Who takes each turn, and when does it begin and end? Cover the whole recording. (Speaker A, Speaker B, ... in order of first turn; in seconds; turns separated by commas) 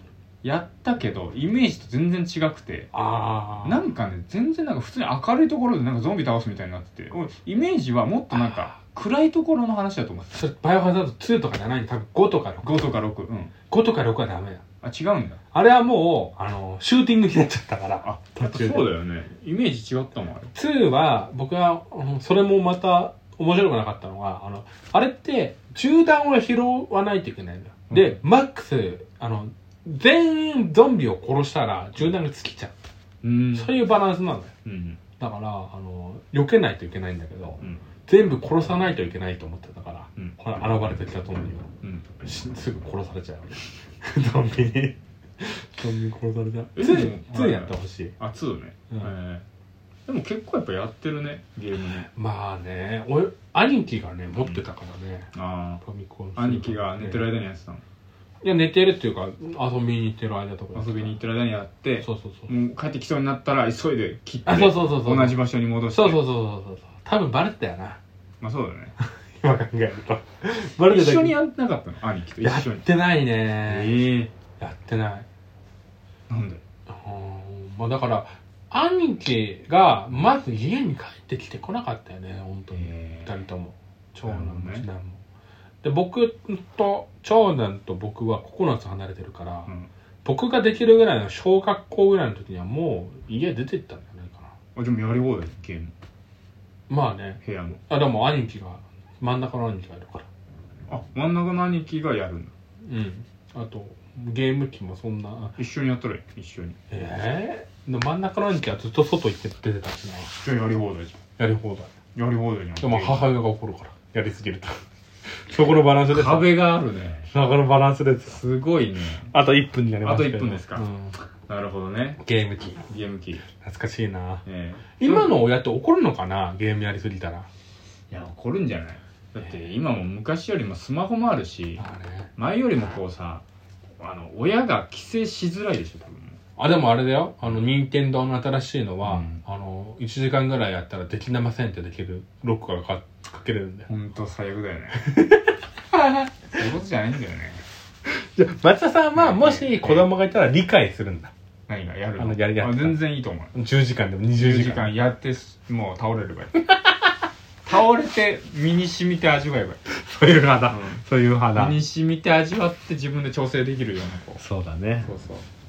Speaker A: 0.4-2.9, Speaker B: 2.9-3.8, Speaker A: 3.6-10.4, Speaker B: 8.3-8.7, Speaker B: 10.3-12.8, Speaker A: 12.6-13.5, Speaker B: 13.7-14.6, Speaker A: 14.8-15.4, Speaker B: 15.5-18.9, Speaker A: 18.0-20.5, Speaker B: 20.5-32.7, Speaker A: 27.9-28.2, Speaker A: 33.2-33.9, Speaker B: 33.5-34.5, Speaker A: 34.6-35.0, Speaker B: 35.2-41.7, Speaker A: 41.8-42.1, Speaker B: 42.2-48.1, Speaker A: 46.7-49.5, Speaker A: 50.1-52.1, Speaker B: 52.1-55.3, Speaker A: 55.3-55.8, Speaker B: 55.8-57.3, Speaker A: 56.4-57.8, Speaker B: 58.4-61.2, Speaker A: 60.7-66.2, Speaker B: 62.0-62.5, Speaker B: 64.5-65.4, Speaker B: 65.9-68.0, Speaker A: 68.4-68.9, Speaker B: 69.0-71.4, Speaker A: 70.8-72.9, Speaker B: 72.4-74.0, Speaker A: 73.6-74.3, Speaker B: 74.6-75.3, Speaker A: 76.3-76.6, Speaker B: 76.9-85.2, Speaker A: 82.7-83.3, Speaker A: 84.2-84.9, Speaker B: 85.8-89.7, Speaker B: 90.2-94.5, Speaker A: 94.8-95.9, Speaker B: 96.9-100.3, Speaker A: 97.4-97.8, Speaker A: 100.9-102.5, Speaker B: 102.9-105.6, Speaker A: 105.6-106.8, Speaker B: 106.9-110.4, Speaker A: 110.4-111.2, Speaker B: 111.4-111.9, Speaker A: 112.2-113.3, Speaker B: 112.8-114.7, Speaker B: 115.3-116.6, Speaker A: 116.1-117.3, Speaker B: 117.3-118.4, Speaker A: 118.3-119.3, Speaker B: 119.3-121.2, Speaker A: 120.0-120.9, Speaker A: 121.5-122.2, Speaker B: 122.2-122.8, Speaker A: 122.9-123.5, Speaker B: 123.5-124.4, Speaker A: 124.5-125.5, Speaker B: 125.0-127.5, Speaker A: 128.1-131.8, Speaker B: 131.8-132.3, Speaker A: 132.4-133.4, Speaker A: 134.0-136.4, Speaker B: 136.6-143.9, Speaker A: 139.0-139.4, Speaker A: 143.9-145.0, Speaker B: 145.0-146.3, Speaker A: 146.5-147.6, Speaker B: 148.1-151.3, Speaker A: 149.2-150.1, Speaker A: 151.7-153.5, Speaker B: 152.2-153.0, Speaker B: 153.5-154.9, Speaker A: 154.3-156.6, Speaker B: 156.7-157.1, Speaker A: 157.6-159.8, Speaker B: 159.9-161.8, Speaker A: 160.7-164.4, Speaker B: 164.4-165.1, Speaker A: 165.0-165.5